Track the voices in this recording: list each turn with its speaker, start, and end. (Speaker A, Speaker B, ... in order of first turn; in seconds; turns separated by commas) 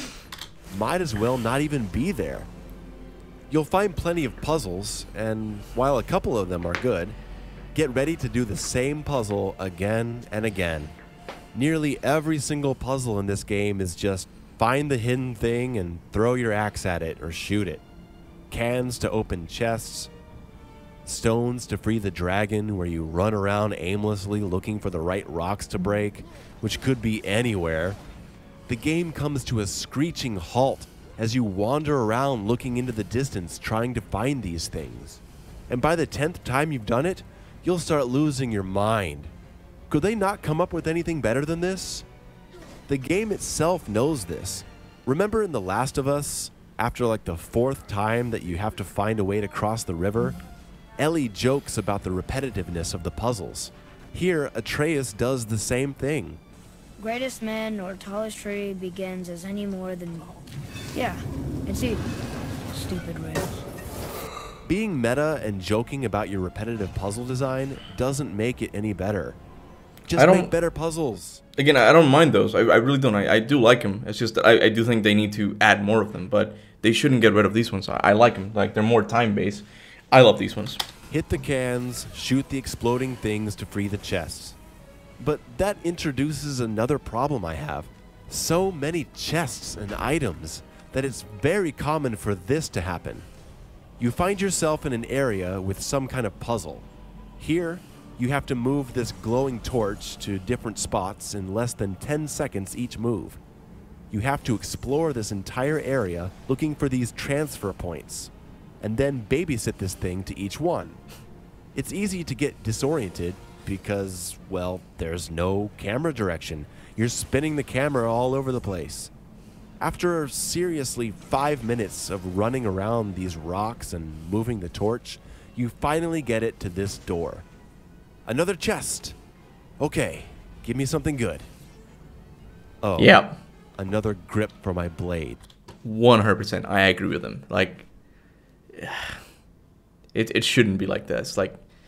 Speaker A: 0.7-2.5, Speaker A: 3.5-7.2, Speaker A: 7.7-10.9, Speaker A: 11.5-17.8, Speaker A: 18.5-20.1, Speaker A: 21.0-28.0, Speaker A: 28.7-39.3, Speaker A: 39.9-42.1, Speaker A: 42.9-50.4, Speaker A: 51.0-56.4, Speaker B: 57.0-60.3, Speaker B: 60.9-62.0, Speaker B: 62.7-63.6, Speaker A: 64.7-69.4, Speaker A: 70.1-71.4, Speaker C: 70.2-70.5, Speaker C: 71.6-80.8, Speaker A: 81.1-84.6, Speaker A: 85.2-93.3, Speaker A: 94.0-96.8, Speaker A: 97.4-103.4, Speaker A: 104.1-111.0, Speaker A: 111.7-119.1, Speaker A: 119.8-127.4, Speaker A: 128.2-129.2, Speaker A: 129.8-131.5, Speaker A: 132.8-133.2, Speaker C: 133.0-133.4, Speaker A: 133.8-135.4, Speaker C: 135.8-137.8, Speaker C: 138.8-139.2, Speaker C: 140.1-141.6